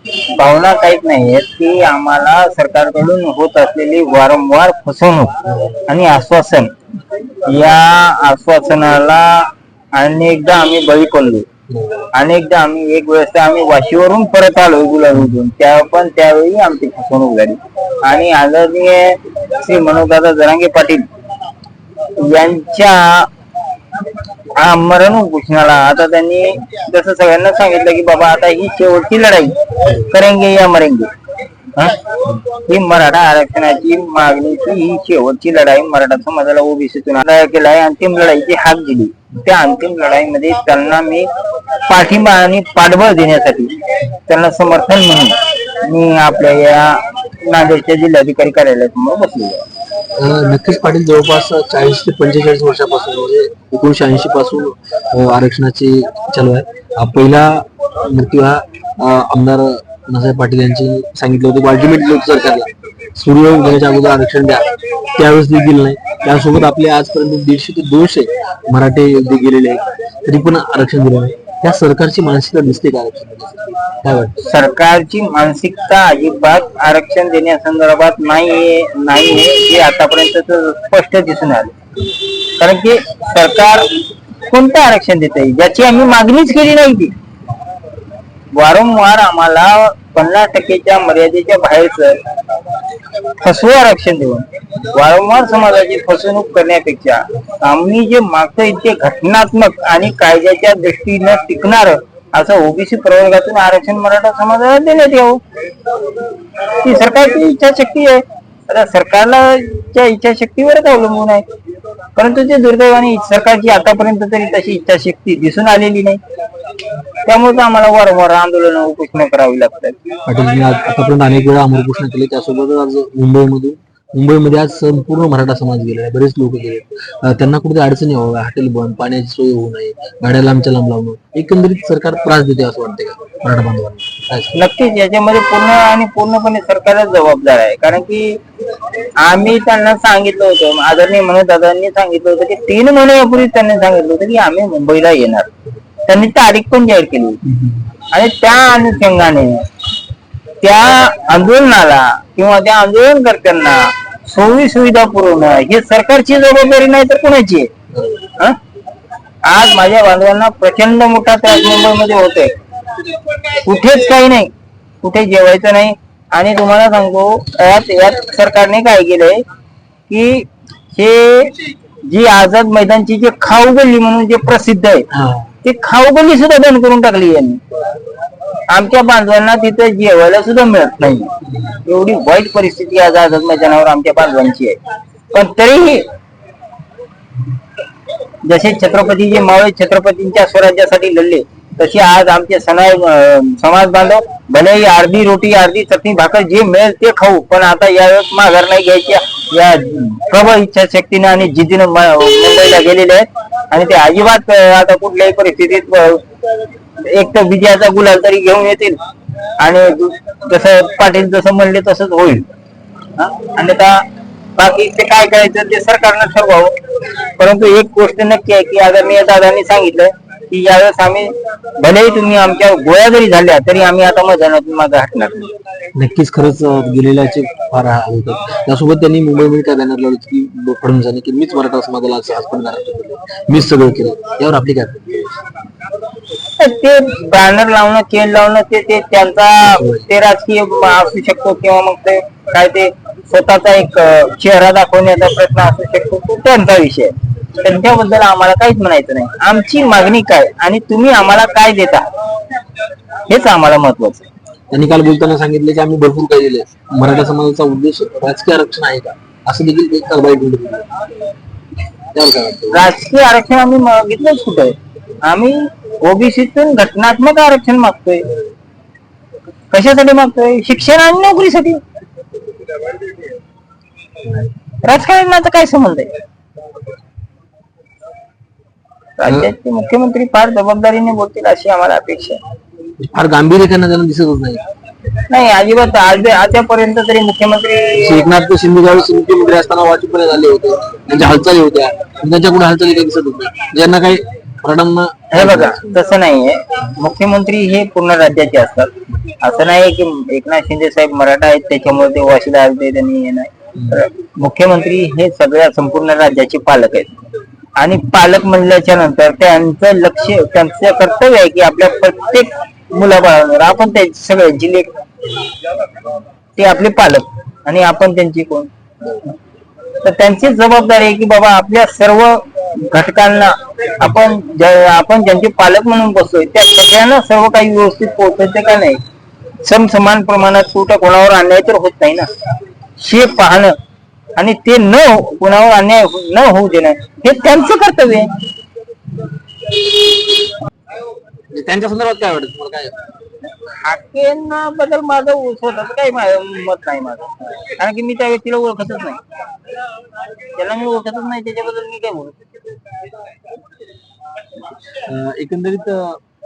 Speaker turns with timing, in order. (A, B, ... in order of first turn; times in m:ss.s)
0:00.4-0:06.7 A
0:07.4-0:11.4 A
0:11.7-0:12.1 B
0:12.1-0:21.1 A
0:22.2-0:23.3 A
0:24.6-0:31.1 A
0:31.7-0:41.3 A
0:41.9-0:49.6 A
0:50.2-1:14.5 B
1:14.5-1:21.7 A
1:22.6-1:23.9 A
1:24.5-1:27.1 A
1:28.5-1:32.2 A
1:33.4-1:45.4 A
1:46.8-1:51.4 A
1:52.2-1:56.2 A
1:57.2-2:00.0 A
2:00.2-2:14.6 B
2:14.5-2:18.4 A
2:19.2-2:25.5 A
2:26.1-2:27.4 A
2:28.1-2:29.6 A
2:30.6-2:37.7 A
2:39.4-2:42.6 A
2:43.5-2:44.5 A
2:45.0-2:49.4 A
2:50.1-2:55.1 A
2:55.1-2:55.5 B
2:55.6-2:57.6 A
2:58.7-3:04.8 A
3:05.3-3:06.1 A
3:08.4-3:26.2 A
3:27.0-3:29.0 A
3:29.6-3:32.5 A
3:33.2-3:34.0 A
3:34.6-3:36.7 A
3:37.4-3:45.5 A
3:46.0-3:55.4 B
3:56.6-4:12.1 A
3:59.8-4:00.1 B
4:13.3-4:14.3 A
4:14.7-4:20.9 B
4:22.1-4:22.9 B
4:22.7-4:28.3 A
4:29.7-4:31.8 A
4:34.8-4:36.1 A
4:39.2-4:42.4 A
4:43.0-4:44.6 B
4:45.3-4:48.1 A
4:48.0-4:56.0 B
4:55.3-4:58.9 A
4:59.4-5:07.2 A
5:07.8-5:15.0 A
5:16.6-5:18.7 A
5:20.0-5:29.0 A
5:29.6-5:32.3 A
5:33.0-5:33.8 A
5:34.4-5:38.3 A
5:41.5-5:43.0 B
5:43.6-5:49.2 A
5:50.5-5:52.4 A
5:54.9-5:56.2 B